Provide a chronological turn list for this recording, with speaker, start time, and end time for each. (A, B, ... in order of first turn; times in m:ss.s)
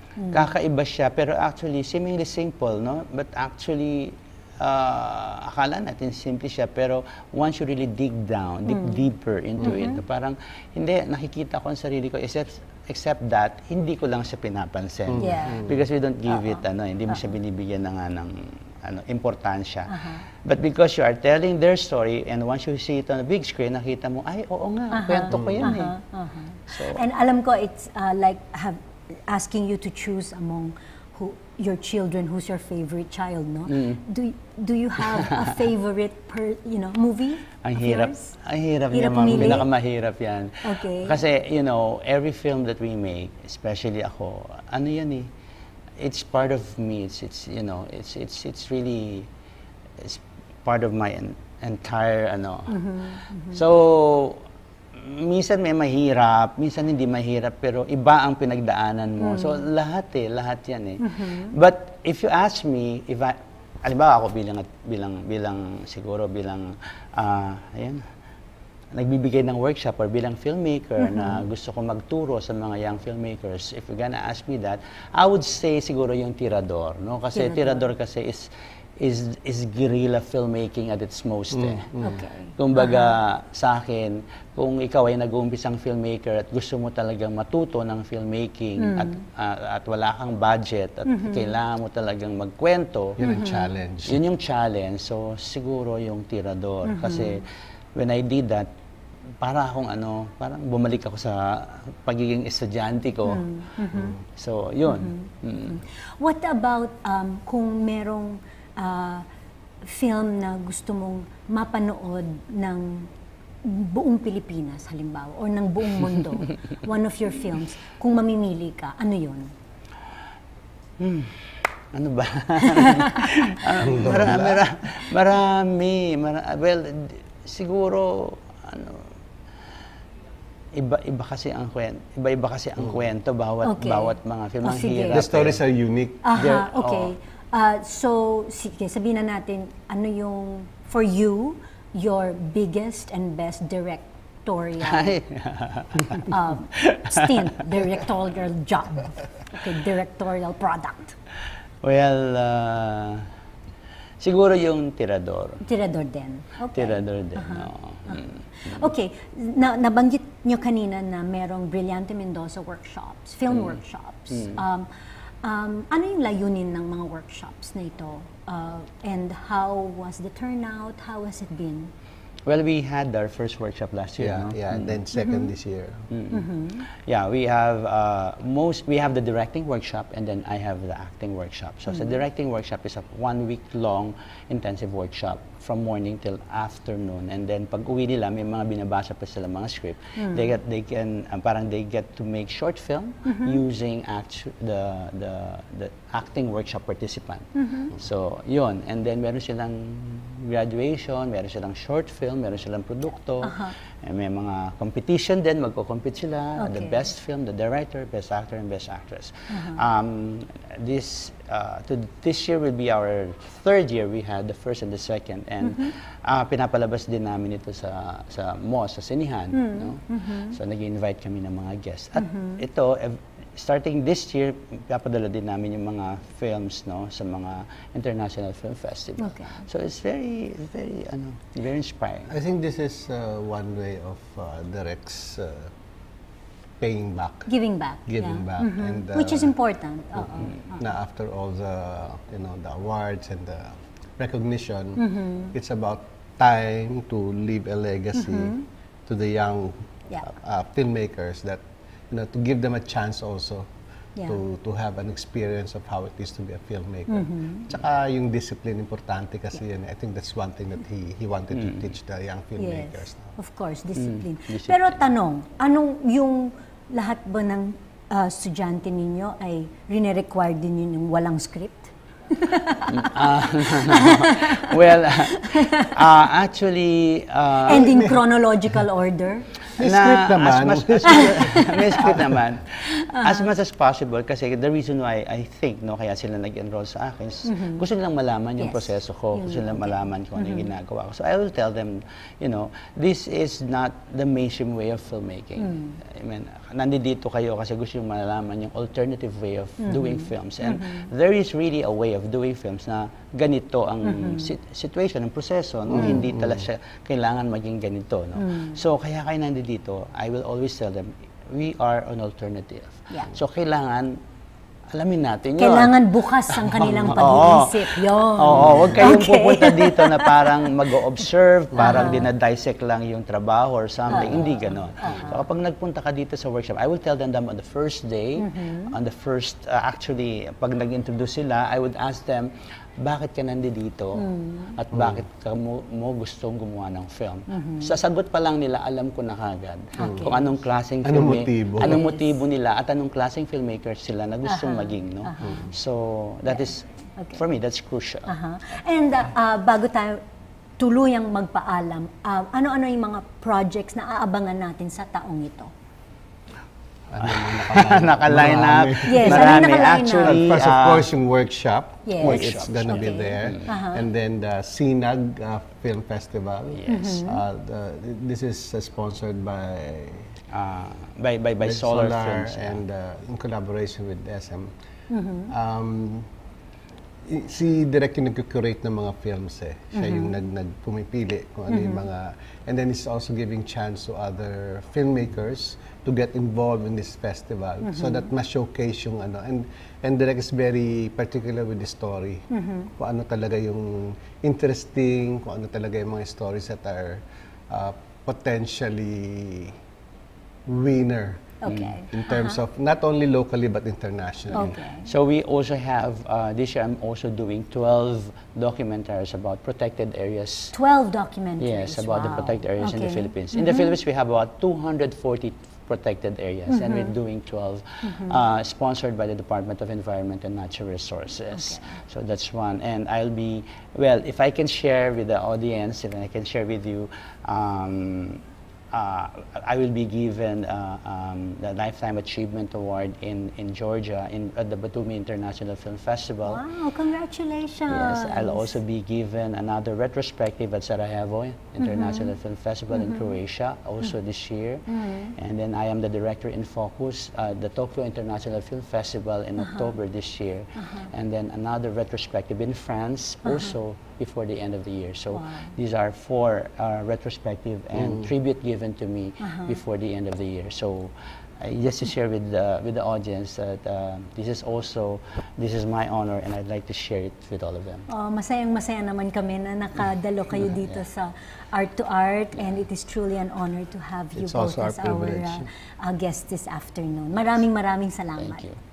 0:00.2-0:00.5 A
0:00.3-0:26.0 B
0:08.7-0:09.1 A
0:09.6-0:10.0 A
0:15.1-0:15.8 C
0:15.2-0:15.7 A
0:16.3-0:17.2 A
0:19.9-0:20.2 A
0:24.9-0:38.4 A
0:25.3-0:25.8 C
0:26.7-0:27.0 B
0:33.7-0:34.0 B
0:37.6-0:45.3 B
0:38.9-0:39.7 A
0:40.6-0:41.2 A
0:46.0-0:49.3 B
0:50.0-0:54.4 B
0:52.7-0:53.6 A
0:54.9-1:08.1 B
0:59.2-0:59.6 A
1:01.0-1:01.5 A
1:08.9-1:22.0 B
1:11.0-1:11.4 A
1:17.4-1:17.9 A
1:21.5-1:22.1 C
1:22.0-1:23.1 A
1:22.6-1:33.2 B
1:28.8-1:29.2 A
1:31.1-1:31.5 A
1:33.2-1:34.2 C
1:33.2-1:33.6 A
1:34.1-1:37.4 B
1:36.8-1:37.4 A
1:38.0-1:38.7 B
1:39.4-1:43.5 B
1:43.3-1:44.2 A
1:44.3-1:45.8 B
1:44.9-1:49.3 A
1:49.8-1:53.1 A
1:53.6-1:59.5 A
2:01.0-2:09.1 B
2:02.8-2:03.2 A
2:03.9-2:04.6 C
2:10.7-2:15.6 B
2:13.6-2:15.2 A
2:15.1-2:16.2 C
2:16.2-2:25.1 A
2:16.4-2:17.1 B
2:24.8-2:27.3 B
2:26.2-2:31.2 A
2:31.8-2:33.3 B
2:34.2-2:35.6 B
2:35.6-2:44.9 A
2:36.8-2:38.9 B
2:43.5-2:43.8 B
2:44.3-2:44.6 B
2:45.4-2:51.9 A
2:52.5-2:55.0 B
2:54.2-2:56.1 C
2:55.2-2:55.4 A
2:56.1-3:52.3 B
2:56.3-2:56.8 A
3:01.9-3:02.2 A
3:10.2-3:10.4 A
3:13.3-3:13.6 A
3:17.6-3:17.9 A
3:23.4-3:23.7 A
3:26.6-3:27.1 A
3:29.5-3:29.8 A
3:35.6-3:35.9 A
3:39.5-3:40.6 A
3:42.2-3:42.6 A
3:49.2-3:49.6 A
3:52.3-3:55.7 C
3:56.8-3:57.5 C
3:57.5-4:00.8 A
3:58.1-3:59.5 C
4:00.2-4:13.7 C
4:05.0-4:05.6 A
4:08.2-4:08.6 A
4:14.2-4:14.4 A
4:14.2-4:23.3 C
4:17.1-4:17.7 A
4:21.5-4:21.9 B
4:22.6-4:34.8 A
4:24.0-4:25.0 B
4:32.9-4:38.1 B
4:35.3-4:36.0 A
4:37.6-4:39.5 A
4:39.8-4:42.4 C
4:39.8-5:14.2 B
4:41.2-4:41.6 A
4:42.9-4:43.5 A
4:47.4-4:47.8 A
4:48.6-4:50.7 A
4:55.6-4:56.0 A
4:59.8-5:01.1 A
5:04.0-5:04.5 A
5:05.9-5:06.7 C
5:06.0-5:06.2 A
5:08.4-5:08.8 A
5:14.9-5:48.3 B
5:15.6-5:20.7 A
5:18.5-5:19.0 C
5:21.8-5:22.3 A
5:24.1-5:25.4 A
5:28.4-5:29.0 A
5:34.2-5:34.8 A
5:34.9-5:35.2 C
5:37.5-5:37.9 A
5:40.0-5:40.4 A
5:40.0-5:40.3 C
5:41.0-5:42.0 C
5:41.8-5:42.4 A
5:44.4-5:45.7 A
5:45.4-5:45.7 C
5:46.5-5:47.4 A
5:48.3-5:50.2 A
5:50.8-5:55.7 A
5:57.1-6:10.3 C
5:57.2-6:01.1 B
5:59.0-6:00.4 A
6:02.0-6:04.0 A
6:02.2-6:03.7 B
6:06.7-6:07.2 B
6:06.9-6:07.4 A
6:10.5-6:12.8 B
6:11.6-6:14.7 C
6:15.1-6:15.5 A
6:15.5-6:16.3 C
6:17.3-6:39.8 C
6:19.9-6:20.4 A
6:21.7-6:22.0 A
6:27.8-6:28.3 A
6:32.5-6:32.9 A
6:40.7-6:41.6 C
6:41.6-6:42.6 A
6:41.7-6:42.0 B
6:42.1-6:44.8 C
6:44.5-6:50.8 B
6:44.6-6:45.1 A
6:50.7-6:53.9 A
6:51.6-7:16.6 B
6:56.7-6:57.1 A
6:58.0-6:58.4 A
7:01.5-7:02.0 A
7:16.4-7:18.8 A
7:17.9-7:48.1 B
7:21.8-7:22.3 A
7:22.9-7:23.4 A
7:24.9-7:25.3 A
7:29.6-7:29.9 A
7:30.8-7:31.1 A
7:33.5-7:33.7 A
7:35.3-7:35.8 A
7:39.4-7:39.8 A
7:48.1-7:58.6 A
7:50.6-7:51.0 B
7:54.4-7:55.7 C
7:58.4-7:58.8 B